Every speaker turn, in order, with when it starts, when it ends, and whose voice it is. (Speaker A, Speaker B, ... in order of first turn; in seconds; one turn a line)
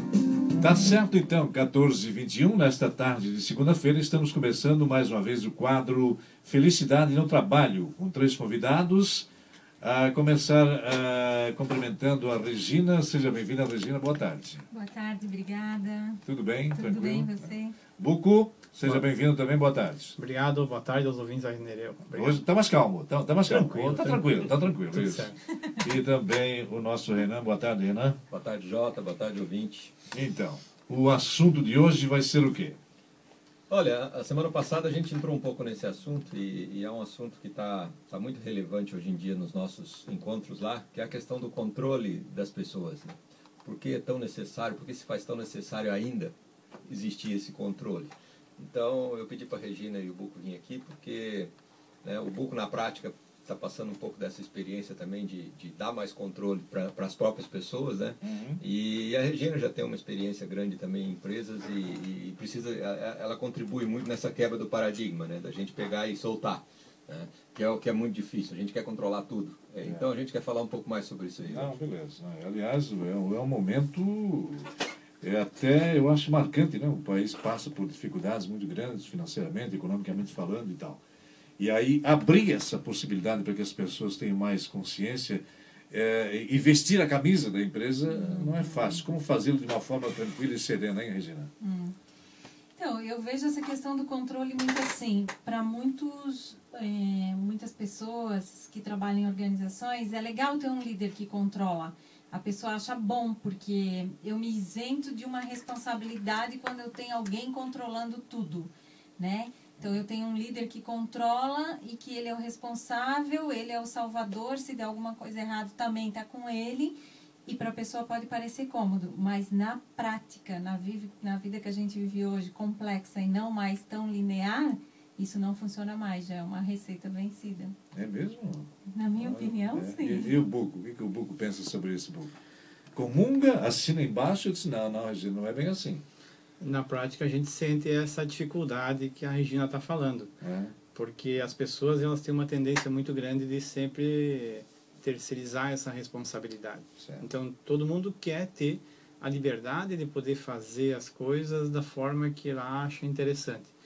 Speaker A: 0.6-9.3
Speaker A: 9.8-14.6
Speaker B: 14.7-16.2
Speaker A: 16.2-17.3
Speaker B: 16.7-17.8
Speaker A: 18.0-20.1
Speaker C: 20.2-22.4
Speaker A: 22.1-28.2
Speaker C: 23.5-25.4
Speaker D: 28.3-29.9
Speaker A: 30.1-32.8
Speaker D: 33.7-46.3
Speaker D: 46.9-51.5
Speaker D: 52.0-71.8
Speaker A: 58.2-58.6
Speaker A: 71.5-74.7
Speaker A: 75.2-81.0
Speaker A: 81.6-91.5
Speaker B: 88.1-89.0
Speaker B: 91.6-92.0
Speaker B: 92.8-117.0
Speaker B: 117.5-127.8
Speaker A: 127.9-132.3
Speaker B: 128.9-130.3
Speaker A: 132.9-136.0
Speaker C: 136.6-140.3
Speaker A: 140.4-140.7
Speaker C: 140.9-153.7